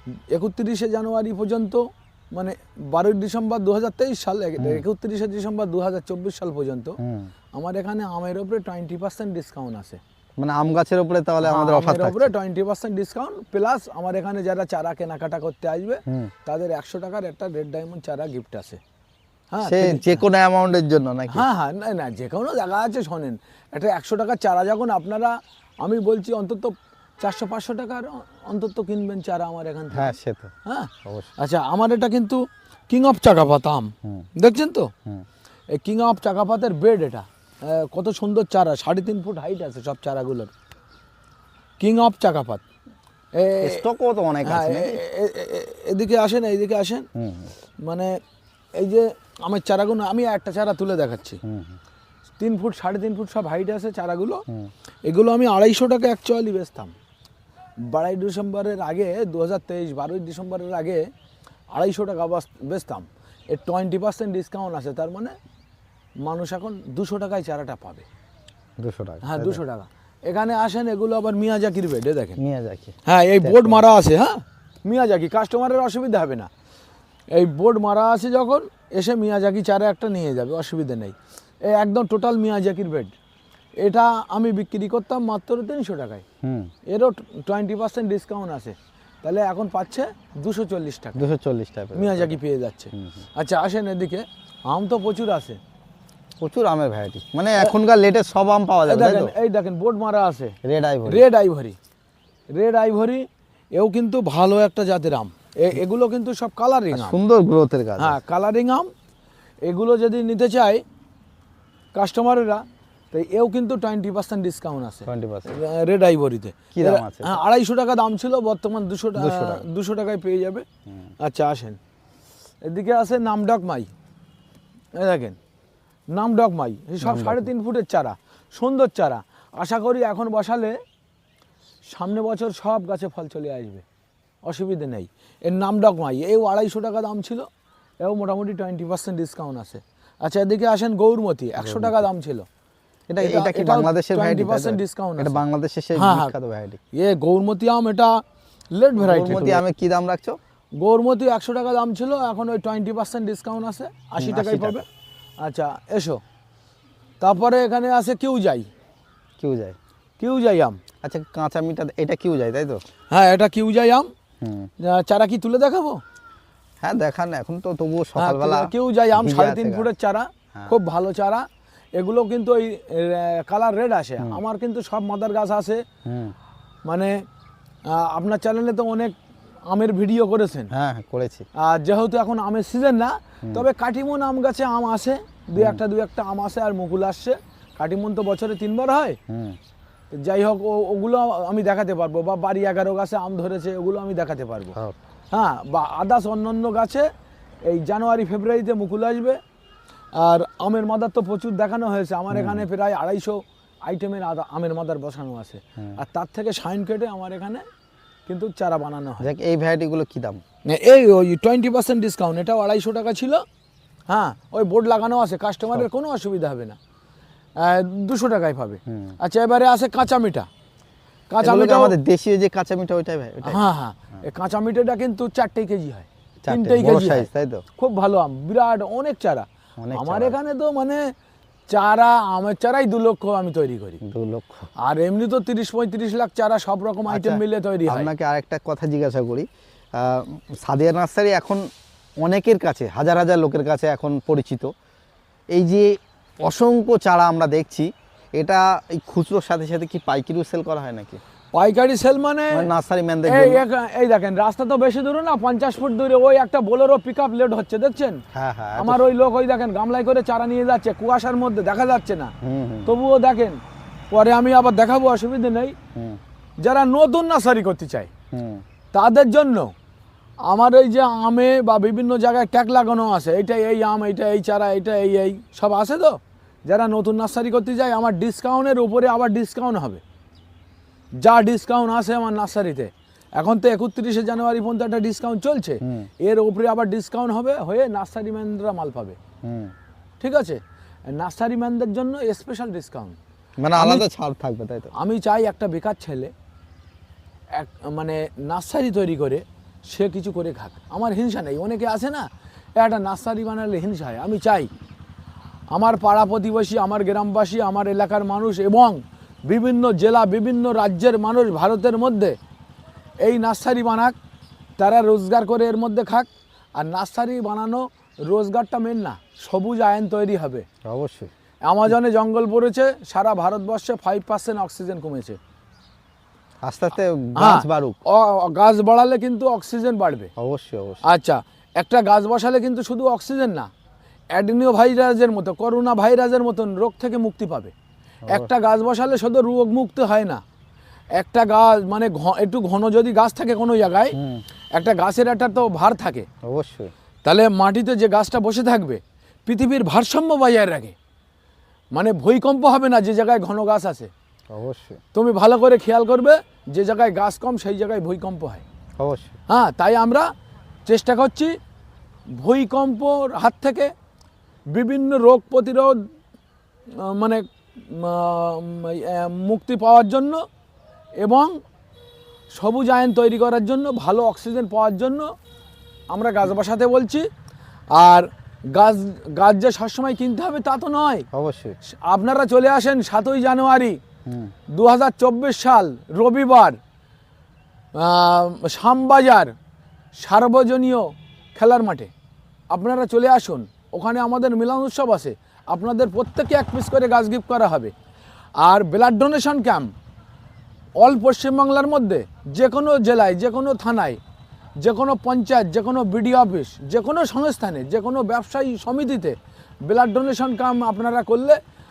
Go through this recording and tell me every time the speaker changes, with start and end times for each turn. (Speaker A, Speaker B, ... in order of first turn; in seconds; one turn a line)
Speaker A: 0.3-7.0
Speaker B: 4.6-4.8
Speaker B: 7.0-7.3
Speaker A: 7.5-10.0
Speaker B: 10.4-12.3
Speaker A: 11.4-18.8
Speaker B: 16.1-16.3
Speaker A: 19.5-20.2
Speaker B: 19.6-21.5
Speaker A: 21.3-34.9
Speaker B: 29.9-30.5
Speaker B: 31.1-31.3
Speaker A: 35.7-40.5
Speaker A: 41.8-42.6
Speaker A: 43.4-43.8
Speaker B: 43.6-45.0
Speaker A: 44.5-47.1
Speaker B: 47.2-47.5
Speaker A: 47.8-48.2
Speaker A: 48.8-51.4
Speaker B: 51.4-51.8
Speaker A: 52.4-54.4
Speaker A: 55.0-56.9
Speaker A: 57.8-61.1
Speaker A: 61.7-65.3
Speaker A: 66.2-68.0
Speaker B: 68.8-69.6
Speaker A: 69.2-72.4
Speaker B: 72.4-73.8
Speaker A: 73.1-76.5
Speaker A: 77.3-83.1
Speaker A: 83.8-86.2
Speaker B: 86.4-86.7
Speaker A: 86.9-91.2
Speaker B: 91.2-92.4
Speaker A: 92.0-95.6
Speaker B: 92.9-93.2
Speaker B: 96.4-99.3
Speaker A: 98.9-100.6
Speaker B: 100.6-101.2
Speaker A: 101.1-101.8
Speaker A: 102.5-107.2
Speaker B: 106.9-108.2
Speaker A: 108.0-108.9
Speaker A: 109.6-110.8
Speaker A: 111.9-120.7
Speaker B: 115.1-115.5
Speaker B: 116.7-117.4
Speaker B: 119.2-119.6
Speaker A: 121.2-121.8
Speaker A: 122.6-123.9
Speaker A: 125.0-125.4
Speaker A: 126.1-130.8
Speaker B: 127.0-127.5
Speaker A: 131.9-133.8
Speaker A: 134.4-137.5
Speaker A: 138.0-142.5
Speaker B: 141.6-142.1
Speaker B: 143.1-146.8
Speaker A: 143.2-145.4
Speaker A: 146.0-146.3
Speaker A: 146.9-149.6
Speaker B: 149.0-150.4
Speaker A: 150.8-154.9
Speaker B: 154.2-154.8
Speaker A: 155.4-156.2
Speaker A: 157.2-158.7
Speaker B: 159.4-159.8
Speaker A: 160.2-160.8
Speaker B: 161.0-162.8
Speaker A: 163.1-164.1
Speaker B: 164.4-164.7
Speaker A: 164.8-166.0
Speaker B: 166.8-169.9
Speaker A: 168.2-175.8
Speaker B: 176.1-176.3
Speaker A: 176.8-177.2
Speaker A: 177.9-179.2
Speaker A: 179.7-180.7
Speaker B: 180.7-181.4
Speaker A: 181.6-189.2
Speaker B: 185.6-185.8
Speaker B: 189.3-189.6
Speaker A: 190.1-194.8
Speaker A: 195.3-197.1
Speaker A: 197.7-199.4
Speaker A: 200.2-207.7
Speaker B: 202.3-202.7
Speaker A: 208.3-209.3
Speaker B: 209.2-210.4
Speaker A: 210.7-213.4
Speaker A: 214.1-216.8
Speaker A: 217.6-220.5
Speaker B: 218.9-219.2
Speaker A: 221.3-221.9
Speaker B: 221.4-223.6
Speaker A: 223.4-231.1
Speaker B: 226.4-227.6
Speaker B: 229.8-230.4
Speaker A: 231.7-234.0
Speaker B: 234.0-234.7
Speaker A: 234.8-238.1
Speaker B: 237.1-241.7
Speaker B: 242.2-244.7
Speaker B: 245.5-251.2
Speaker A: 251.5-252.7
Speaker B: 252.5-253.6
Speaker A: 253.3-258.2
Speaker B: 258.3-259.1
Speaker A: 258.8-262.3
Speaker B: 262.4-262.9
Speaker A: 262.9-263.6
Speaker A: 264.1-265.8
Speaker B: 265.9-266.2
Speaker A: 266.6-268.1
Speaker B: 268.3-268.6
Speaker A: 268.9-269.7
Speaker A: 270.4-280.0
Speaker A: 281.2-289.2
Speaker B: 285.8-286.1
Speaker B: 289.4-289.7
Speaker A: 290.2-293.2
Speaker B: 293.6-294.9
Speaker A: 293.8-294.1
Speaker A: 294.9-296.3
Speaker A: 297.5-304.7
Speaker A: 305.7-312.4
Speaker A: 313.2-314.1
Speaker A: 314.8-320.7
Speaker B: 320.8-321.3
Speaker A: 321.6-325.4
Speaker B: 326.6-328.0
Speaker A: 327.4-330.3
Speaker B: 330.4-331.0
Speaker A: 331.0-333.7
Speaker A: 334.3-337.7
Speaker A: 338.3-340.4
Speaker A: 341.1-344.2
Speaker B: 344.2-344.4
Speaker A: 344.8-346.3
Speaker B: 346.4-346.9
Speaker A: 347.2-350.9
Speaker A: 351.9-354.1
Speaker B: 354.5-355.0
Speaker A: 355.1-358.6
Speaker B: 359.0-359.4
Speaker A: 359.5-360.3
Speaker A: 360.9-361.6
Speaker A: 362.4-363.9
Speaker A: 364.7-366.1
Speaker A: 366.9-370.4
Speaker A: 371.2-371.6
Speaker A: 372.6-375.3
Speaker A: 376.1-377.3
Speaker A: 377.9-381.3
Speaker B: 381.3-381.8
Speaker A: 381.9-384.0
Speaker B: 384.3-384.5
Speaker A: 384.7-386.8
Speaker A: 388.0-389.5
Speaker A: 390.2-392.1
Speaker A: 392.7-397.9
Speaker A: 398.6-399.9
Speaker A: 401.0-404.2
Speaker A: 404.8-411.6